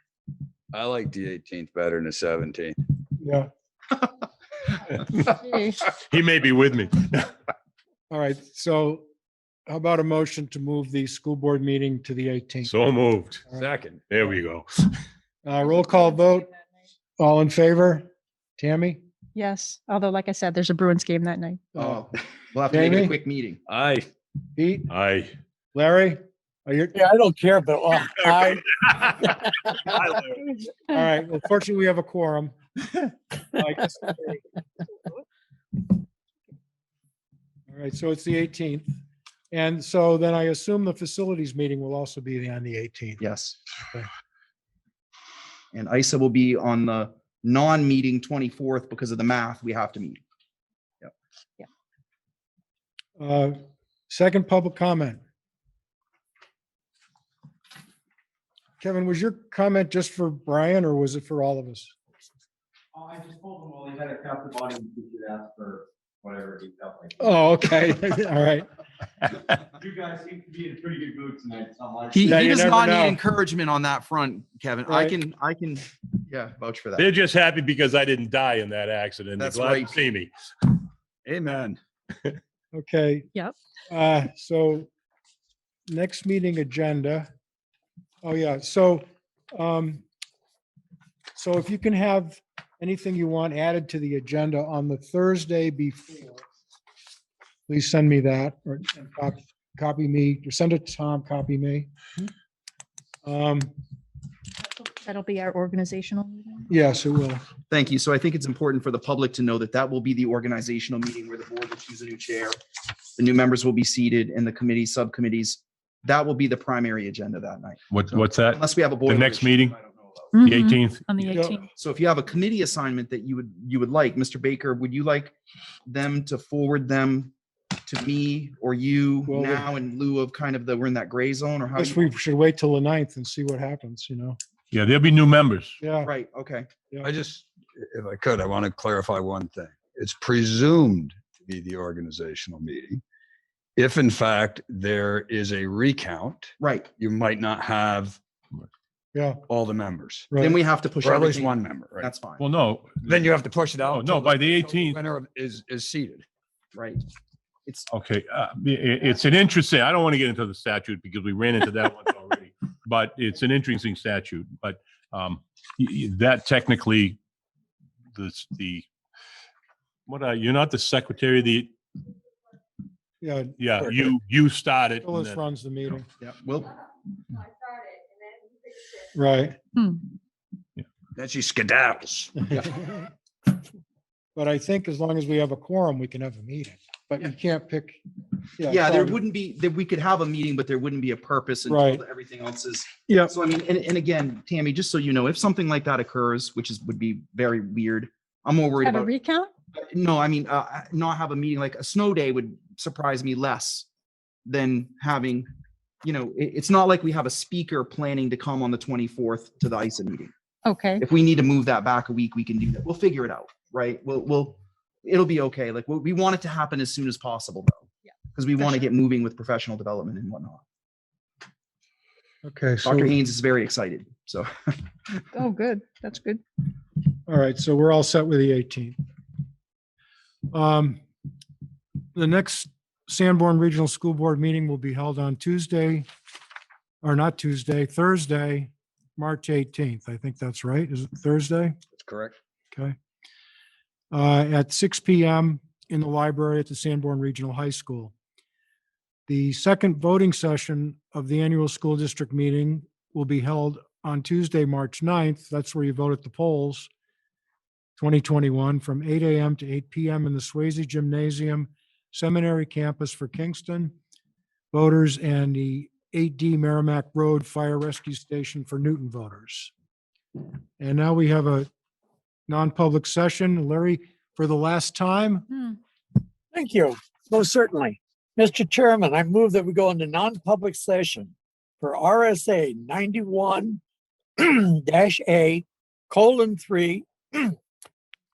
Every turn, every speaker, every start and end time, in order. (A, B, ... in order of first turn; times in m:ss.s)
0:00.7-0:02.8 A
0:03.2-0:03.5 B
0:05.4-0:05.8 C
0:05.9-0:07.3 D
0:08.1-0:09.0 B
0:09.7-0:12.7 B
0:12.7-0:13.5 D
0:13.5-0:14.0 A
0:14.1-0:15.0 D
0:15.4-0:16.5 B
0:17.2-0:18.1 B
0:18.6-0:19.0 B
0:19.4-0:21.6 C
0:21.8-0:22.0 B
0:21.8-0:23.6 E
0:22.7-0:23.2 B
0:23.7-0:24.0 D
0:24.6-0:24.9 B
0:24.9-0:25.3 D
0:25.7-0:27.0 B
0:26.9-0:28.6 F
0:28.2-0:29.3 D
0:29.2-0:29.9 F
0:29.9-0:30.4 D
0:30.9-0:32.6 B
0:33.5-0:34.4 B
0:37.7-0:38.9 B
0:39.5-0:43.2 B
0:43.2-0:43.6 E
0:45.7-0:50.2 E
0:53.2-0:53.6 B
0:54.1-0:55.2 B
0:58.8-1:01.9 B
1:03.0-1:07.2 G
1:07.2-1:08.7 B
1:09.7-1:12.4 G
1:12.1-1:17.1 E
1:12.3-1:13.2 B
1:14.9-1:15.2 B
1:17.0-1:20.3 D
1:19.4-1:20.0 E
1:21.2-1:21.8 A
1:22.7-1:23.3 B
1:23.9-1:24.9 B
1:25.9-1:27.3 B
1:28.2-1:30.0 B
1:31.4-1:36.4 B
1:37.7-1:41.9 B
1:43.2-1:43.7 B
1:44.8-1:46.7 C
1:46.7-1:47.4 B
1:47.7-1:52.6 E
1:53.2-2:00.4 E
1:57.9-1:59.8 D
2:00.4-2:01.4 D
2:00.4-2:01.7 C
2:01.3-2:01.6 B
2:01.8-2:05.3 E
2:05.9-2:07.3 E
2:07.9-2:12.0 E
2:09.3-2:09.7 B
2:11.8-2:14.4 B
2:14.7-2:15.8 D
2:15.8-2:16.1 B
2:16.0-2:16.7 E
2:17.0-2:23.0 A
2:23.8-2:28.2 A
2:26.6-2:26.9 E
2:29.2-2:29.4 B
2:29.5-2:30.3 A
2:30.3-2:30.6 B
2:30.4-2:32.4 E
2:31.0-2:32.1 A
2:32.4-2:33.2 D
2:33.0-2:36.3 A
2:33.9-2:35.0 D
2:36.7-2:37.0 E
2:37.9-2:47.2 D
2:48.2-2:48.9 D
2:50.1-2:51.7 D
2:53.2-2:53.6 B
2:53.6-2:55.4 D
2:55.0-2:56.1 B
2:56.2-2:56.8 E
2:59.1-2:59.6 B
3:01.2-3:02.3 A
3:02.5-3:03.1 B
3:04.4-3:08.0 B
3:08.6-3:09.2 B
3:08.6-3:19.1 E
3:11.7-3:12.0 B
3:13.1-3:13.3 B
3:18.8-3:19.5 C
3:19.8-3:23.9 E
3:24.5-3:25.5 E
3:26.0-3:30.3 E
3:30.6-3:31.0 C
3:31.0-3:40.6 E
3:42.4-3:43.1 B
3:42.8-3:44.8 E
3:45.3-3:46.4 C
3:47.3-3:49.0 B
3:50.5-3:51.0 B
3:52.2-3:56.1 B
3:57.0-4:01.8 B
4:01.9-4:02.4 A
4:04.1-4:08.1 B
4:09.3-4:16.9 B
4:18.0-4:23.9 B
4:24.7-4:29.7 B
4:30.8-4:31.7 B
4:32.5-4:35.5 B
4:36.5-4:43.8 F
4:44.4-4:47.6 F